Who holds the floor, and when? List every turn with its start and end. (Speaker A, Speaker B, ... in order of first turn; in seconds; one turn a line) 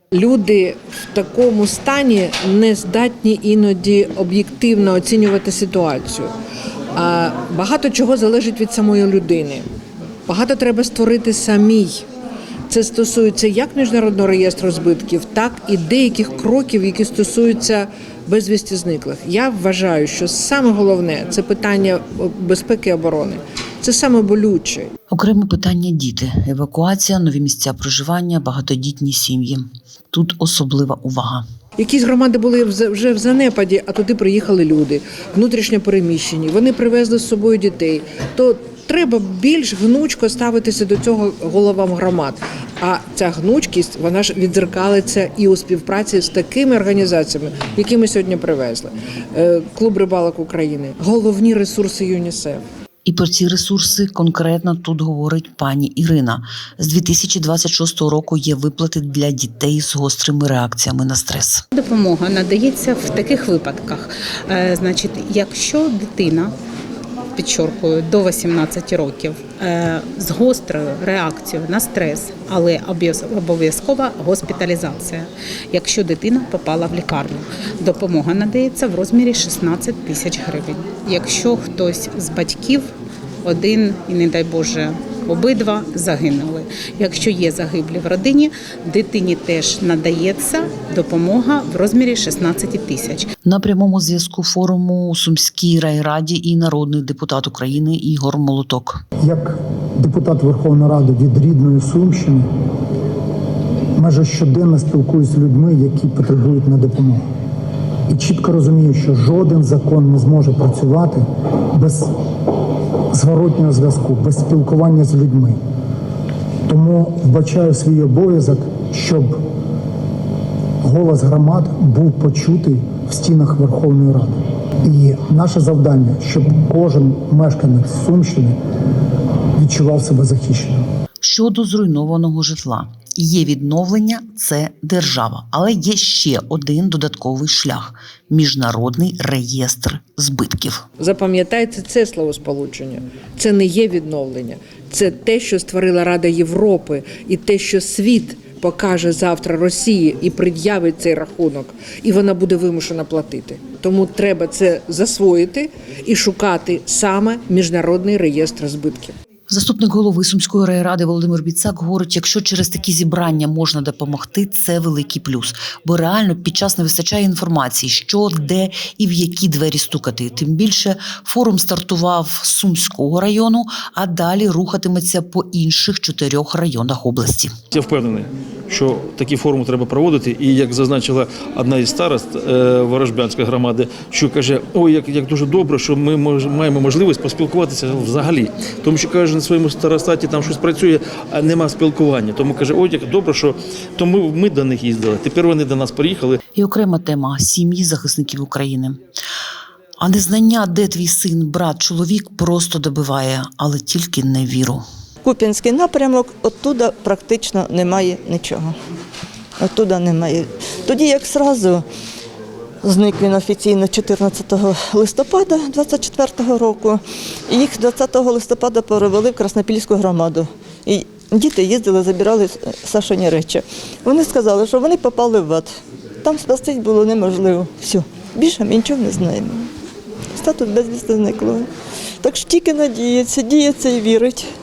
Speaker A: 0.1-6.3
Speaker A: 7.0-9.6
Speaker A: 10.3-12.0
Speaker A: 12.7-24.9
Speaker B: 25.1-31.4
Speaker A: 31.8-52.6
Speaker B: 53.1-61.6
Speaker C: 61.8-66.5
Speaker C: 67.4-82.9
Speaker C: 83.4-93.3
Speaker B: 93.4-99.0
Speaker D: 99.2-102.5
Speaker D: 104.0-107.2
Speaker D: 108.1-112.1
Speaker D: 113.1-115.6
Speaker D: 116.7-119.4
Speaker D: 120.8-128.6
Speaker D: 129.6-130.8
Speaker B: 131.2-140.8
Speaker A: 141.0-159.1
Speaker B: 159.5-177.5
Speaker E: 177.7-196.4
Speaker B: 196.6-199.0
Speaker B: 200.0-204.8
Speaker F: 205.2-208.7
Speaker F: 209.6-211.8
Speaker F: 212.8-225.7
Speaker F: 226.2-229.7
Speaker F: 230.3-231.7
Speaker F: 232.2-234.5